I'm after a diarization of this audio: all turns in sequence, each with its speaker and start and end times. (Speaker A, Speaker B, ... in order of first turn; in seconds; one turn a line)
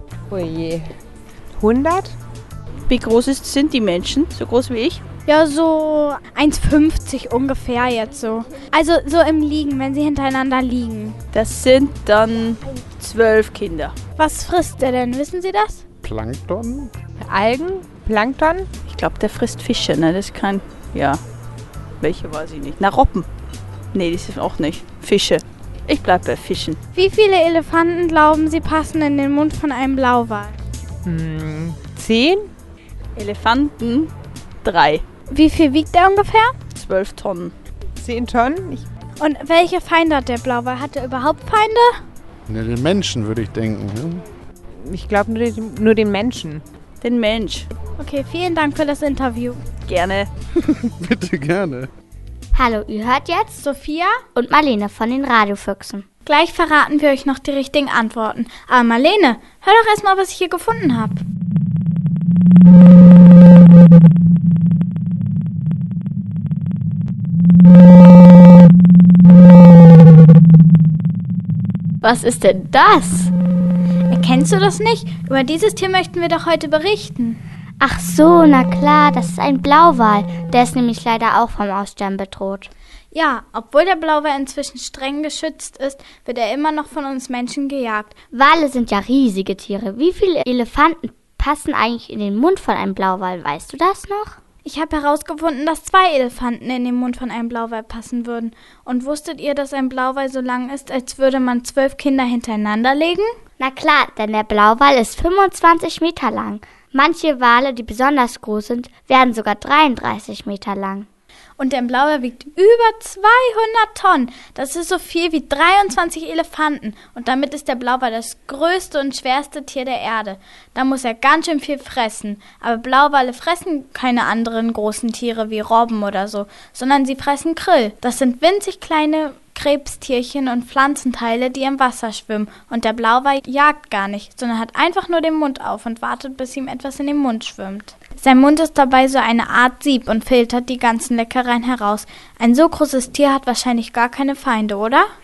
Speaker A: 0.3-0.9
Speaker A: 1.6-2.1
Speaker B: 2.9-5.0
Speaker C: 5.3-11.2
Speaker B: 11.3-13.9
Speaker C: 14.2-15.8
Speaker D: 16.0-16.9
Speaker A: 17.2-18.7
Speaker B: 18.9-21.2
Speaker B: 22.0-23.3
Speaker B: 23.9-26.8
Speaker C: 26.9-30.6
Speaker A: 31.0-32.5
Speaker B: 33.2-34.1
Speaker B: 34.6-35.0
Speaker C: 35.3-36.5
Speaker B: 36.7-37.5
Speaker A: 38.0-38.9
Speaker C: 39.2-42.0
Speaker D: 42.5-44.2
Speaker A: 44.8-46.6
Speaker B: 47.0-47.7
Speaker C: 48.0-49.6
Speaker B: 49.9-50.3
Speaker D: 50.5-51.9
Speaker E: 52.5-53.6
Speaker C: 53.6-54.2
Speaker E: 54.4-56.1
Speaker C: 56.2-61.2
Speaker E: 72.0-73.3
Speaker C: 74.1-77.4
Speaker E: 77.8-82.7
Speaker C: 83.1-88.2
Speaker E: 88.3-94.4
Speaker C: 94.7-103.3
Speaker E: 103.6-111.1
Speaker C: 111.6-145.1